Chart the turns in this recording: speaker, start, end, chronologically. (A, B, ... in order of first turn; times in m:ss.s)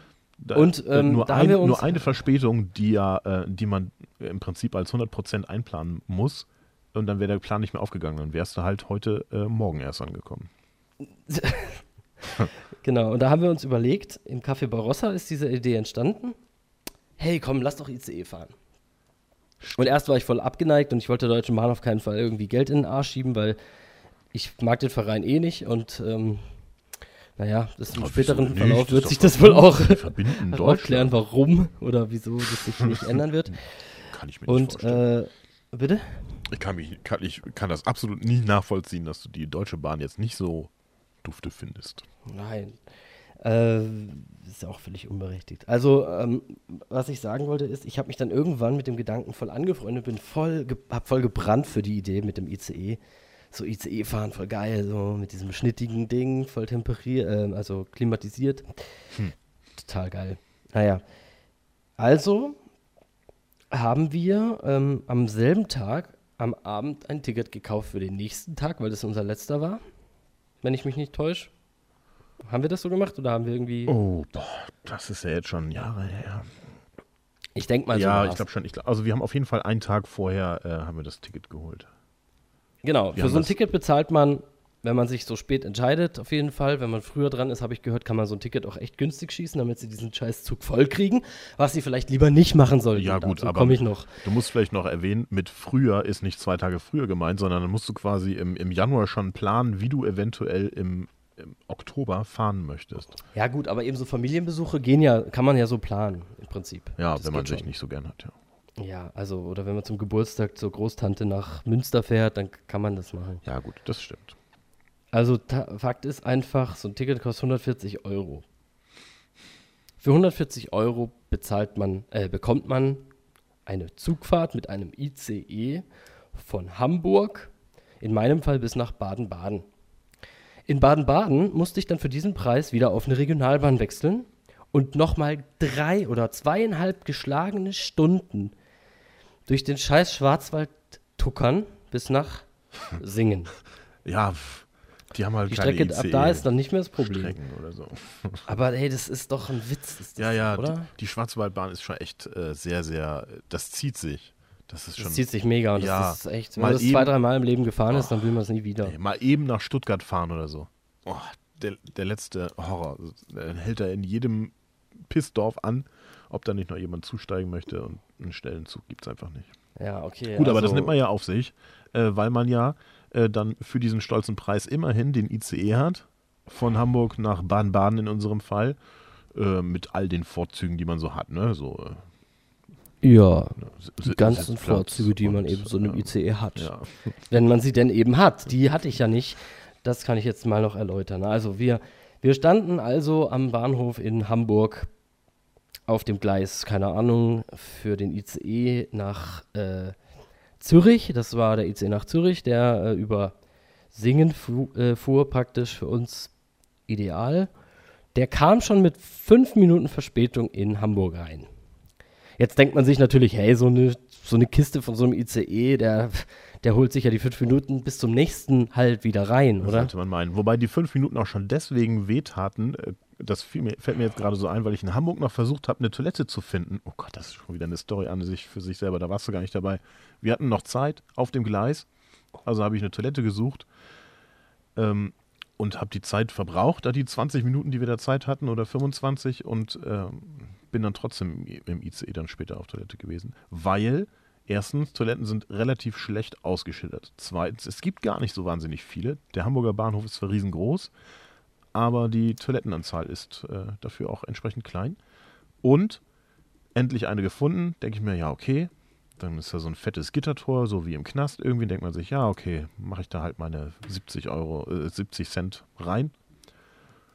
0:00.4-0:10.5 A
0:00.5-0:02.1 B
0:11.3-0:16.4 B
0:17.2-0:18.5 B
0:19.8-0:23.6 B
0:24.3-0:26.5 B
0:27.4-0:33.7 B
0:27.9-0:31.1 A
0:32.8-0:33.0 A
0:34.1-0:35.0 A
0:34.5-0:36.2 B
0:36.5-0:40.7 A
0:41.2-0:42.0 A
0:42.2-0:42.8 B
0:43.4-0:53.0 B
0:53.5-0:59.0 B
0:59.8-1:01.0 B
1:02.0-1:02.6 B
1:03.7-1:09.8 B
1:10.6-1:11.5 B
1:12.4-1:13.9 B
1:13.9-1:16.5 A
1:17.5-1:18.4 B
1:17.9-1:21.9 A
1:22.8-1:34.1 B
1:23.1-1:23.5 A
1:32.9-1:43.2 A
1:43.3-1:47.7 B
1:47.0-1:48.3 A
1:48.8-1:53.4 B
1:53.4-1:54.4 A
1:55.1-1:58.4 B
2:00.0-2:03.0 B
2:03.6-2:09.6 B
2:10.7-2:18.5 B
2:19.4-2:23.5 B
2:24.0-2:26.5 A
2:25.5-2:27.4 B
2:27.0-2:28.4 A
2:28.5-2:30.9 B
2:30.2-2:37.1 A
2:35.0-2:38.9 B
2:37.9-2:38.2 A
2:38.8-2:44.5 A
2:45.1-2:49.5 A
2:49.8-2:50.9 B
2:50.3-2:58.8 A
2:59.3-3:02.0 A
3:03.0-3:06.7 B
3:03.6-3:07.1 A
3:07.3-3:14.9 B
3:15.9-3:20.0 B
3:20.6-3:23.3 B
3:23.9-3:26.3 B
3:26.9-3:27.5 B
3:28.1-3:31.5 B
3:32.4-3:39.9 B
3:39.6-3:51.9 A
3:52.4-3:53.7 A
3:54.8-4:10.9 A
4:11.7-4:15.0 A
4:15.6-4:16.0 A
4:16.7-4:26.1 A